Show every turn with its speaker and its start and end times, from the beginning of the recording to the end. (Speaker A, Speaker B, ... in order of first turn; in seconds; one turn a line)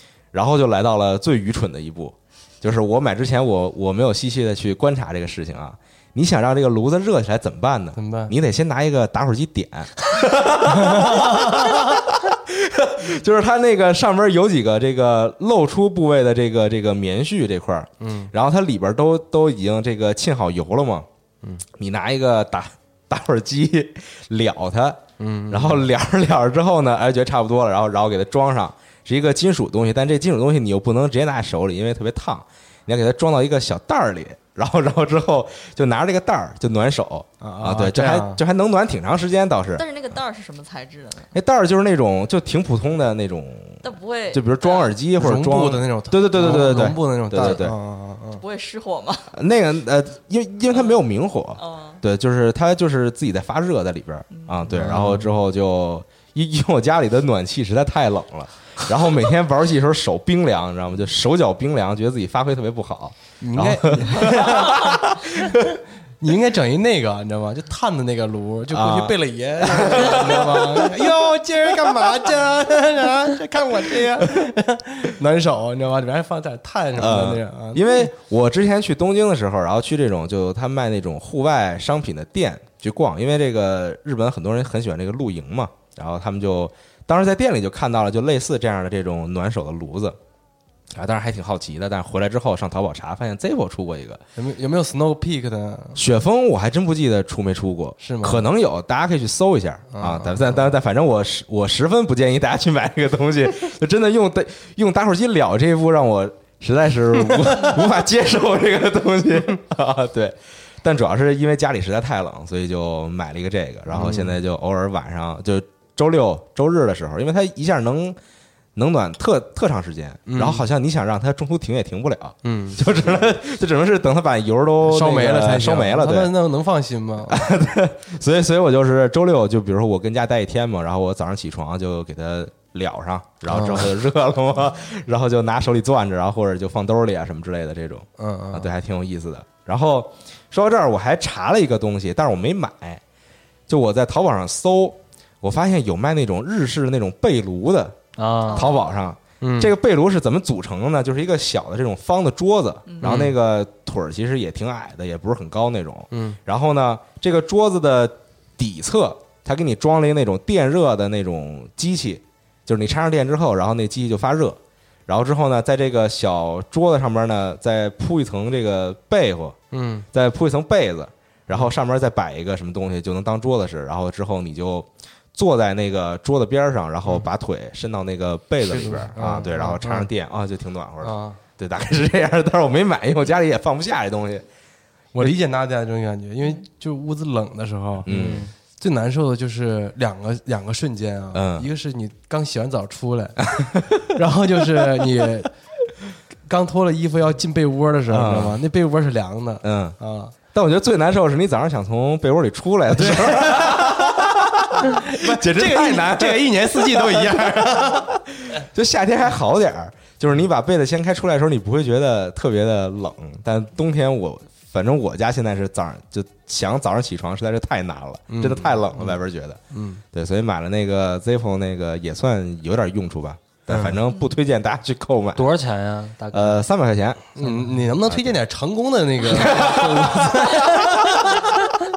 Speaker A: 0.3-21.1
Speaker B: 8.0-8.3
Speaker B: 10.7-11.8
Speaker B: 18.0-18.3
Speaker A: 21.8-39.9
Speaker B: 25.2-25.9
Speaker B: 37.4-38.4
Speaker C: 39.8-41.3
Speaker A: 41.3-47.8
Speaker C: 43.8-44.9
Speaker B: 45.2-48.4
Speaker C: 48.4-49.3
Speaker A: 49.3-65.7
Speaker C: 50.7-51.0
Speaker C: 51.6-52.0
Speaker C: 54.3-54.6
Speaker B: 54.7-55.2
Speaker B: 63.4-78.1
Speaker A: 68.7-71.1
Speaker A: 76.9-90.2
Speaker A: 90.9-94.2
Speaker B: 94.3-96.0
Speaker A: 96.0-118.2
Speaker B: 98.0-98.5
Speaker B: 99.9-100.7
Speaker B: 113.9-114.3
Speaker A: 118.7-126.3
Speaker B: 120.3-120.6
Speaker B: 122.4-122.9
Speaker B: 124.8-127.5
Speaker A: 127.3-143.0
Speaker B: 133.5-133.9
Speaker B: 138.2-138.7
Speaker A: 143.7-148.0
Speaker D: 148.2-148.7
Speaker C: 148.5-148.9
Speaker A: 148.5-169.6
Speaker B: 149.4-149.7
Speaker C: 152.9-153.2
Speaker B: 153.0-153.3
Speaker B: 156.1-156.4
Speaker B: 169.7-170.1
Speaker A: 170.1-184.4
Speaker B: 178.6-180.1
Speaker B: 181.0-181.4
Speaker B: 185.1-188.1
Speaker A: 188.0-188.4
Speaker D: 188.1-188.5
Speaker B: 188.8-193.5
Speaker A: 191.3-191.7
Speaker A: 193.4-194.2
Speaker B: 194.1-195.5
Speaker B: 196.4-200.3
Speaker A: 198.1-198.6
Speaker A: 199.6-200.0
Speaker A: 200.5-219.6
Speaker B: 202.9-204.2
Speaker B: 204.8-208.1
Speaker B: 218.3-219.2
Speaker B: 219.7-220.0
Speaker A: 220.1-225.5
Speaker B: 223.7-224.0
Speaker D: 225.3-226.6
Speaker A: 226.3-227.3
Speaker B: 227.3-231.5
Speaker D: 227.4-227.8
Speaker A: 228.1-228.3
Speaker A: 229.3-231.3